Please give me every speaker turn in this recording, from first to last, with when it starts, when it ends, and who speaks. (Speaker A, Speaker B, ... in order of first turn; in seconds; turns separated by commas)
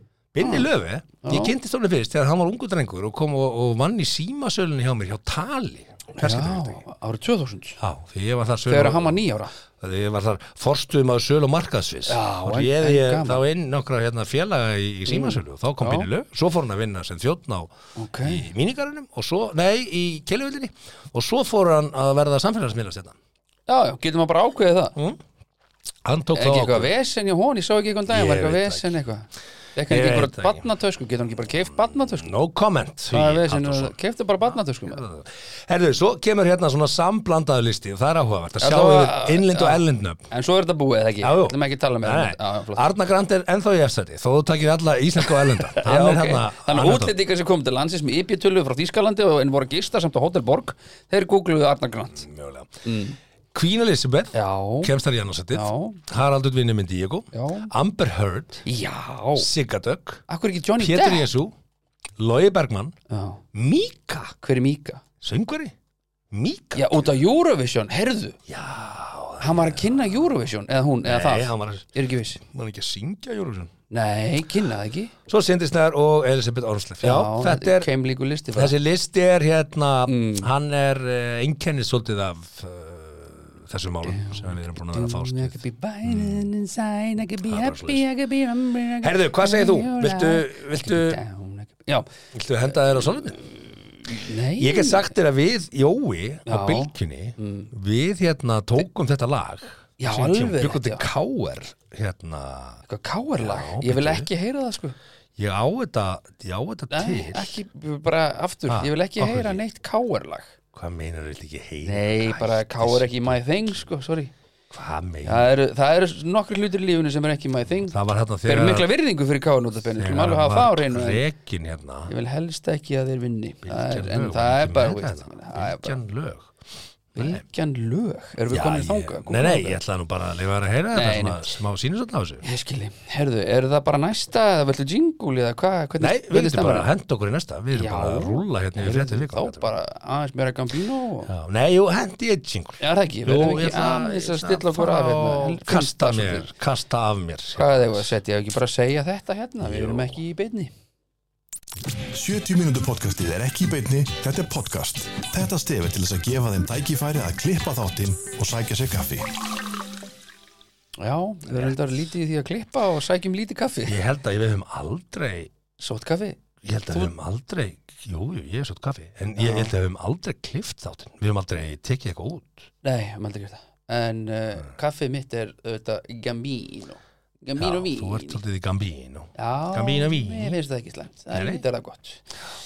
Speaker A: 0.3-6.8, Speaker B: 0.4-0.7, Speaker B: 1.2-1.5, Speaker B: 6.2-7.8, Speaker A: 7.8-9.2, Speaker B: 8.7-9.5, Speaker A: 9.8-17.7, Speaker B: 12.1-13.4, Speaker B: 15.1-16.1, Speaker B: 18.0-18.4, Speaker A: 18.2-23.1, Speaker B: 23.7-24.9, Speaker A: 26.0-26.9, Speaker B: 26.3-32.3, Speaker A: 28.1-28.9, Speaker A: 29.9-30.6, Speaker A: 31.8-33.9, Speaker B: 33.1-35.0, Speaker A: 34.8-40.2, Speaker B: 38.6-42.8, Speaker A: 41.2-47.1, Speaker B: 45.7-52.2, Speaker A: 52.2-52.7, Speaker B: 52.8-53.2, Speaker A: 53.5-58.6, Speaker B: 54.3-54.9, Speaker B: 55.5-56.0, Speaker B: 57.3-57.7, Speaker B: 58.6-59.5, Speaker A: 59.4-60.2, Speaker B: 60.3-61.3, Speaker A: 60.8-61.5, Speaker A: 62.2-62.9, Speaker B: 63.1-63.4, Speaker A: 63.5-64.3, Speaker B: 64.4-65.0, Speaker A: 65.2-65.7, Speaker A: 66.3-67.1, Speaker B: 66.8-68.4, Speaker A: 68.5-70.2, Speaker B: 69.4-72.4, Speaker A: 71.0-71.8, Speaker A: 72.4-73.7, Speaker B: 73.9-75.1, Speaker A: 75.3-77.9, Speaker B: 77.0-78.7, Speaker A: 78.5-86.5, Speaker B: 80.1-80.5, Speaker B: 84.0-92.1, Speaker A: 87.5-88.0, Speaker A: 89.0-91.2, Speaker A: 92.3-93.4, Speaker B: 94.1-95.1, Speaker A: 94.5-102.8, Speaker B: 96.5-97.7, Speaker B: 100.0-101.0, Speaker B: 102.8-105.0, Speaker A: 103.4-104.3, Speaker A: 105.4-107.5, Speaker B: 106.9-110.5, Speaker A: 108.7-109.6, Speaker A: 110.7-113.4, Speaker B: 111.8-114.3, Speaker A: 114.7-115.5, Speaker B: 115.2-121.2, Speaker A: 117.9-118.9, Speaker A: 120.0-122.1, Speaker B: 122.1-126.0, Speaker A: 123.7-126.5, Speaker A: 127.2-127.4, Speaker B: 127.2-129.8, Speaker A: 128.5-132.4, Speaker B: 130.9-131.4, Speaker B: 132.4-136.9, Speaker A: 136.0-139.7, Speaker B: 137.7-141.3, Speaker A: 141.3-147.9, Speaker B: 142.8-146.5, Speaker B: 147.5-150.7, Speaker A: 149.6-150.2, Speaker C: 152.1-159.3, Speaker B: 161.0-163.9, Speaker A: 163.9-165.5, Speaker B: 165.8-166.4, Speaker A: 166.6-172.7, Speaker B: 169.4-169.7, Speaker B: 172.8-178.4, Speaker A: 177.6-180.6, Speaker B: 179.3-182.3, Speaker A: 181.3-181.6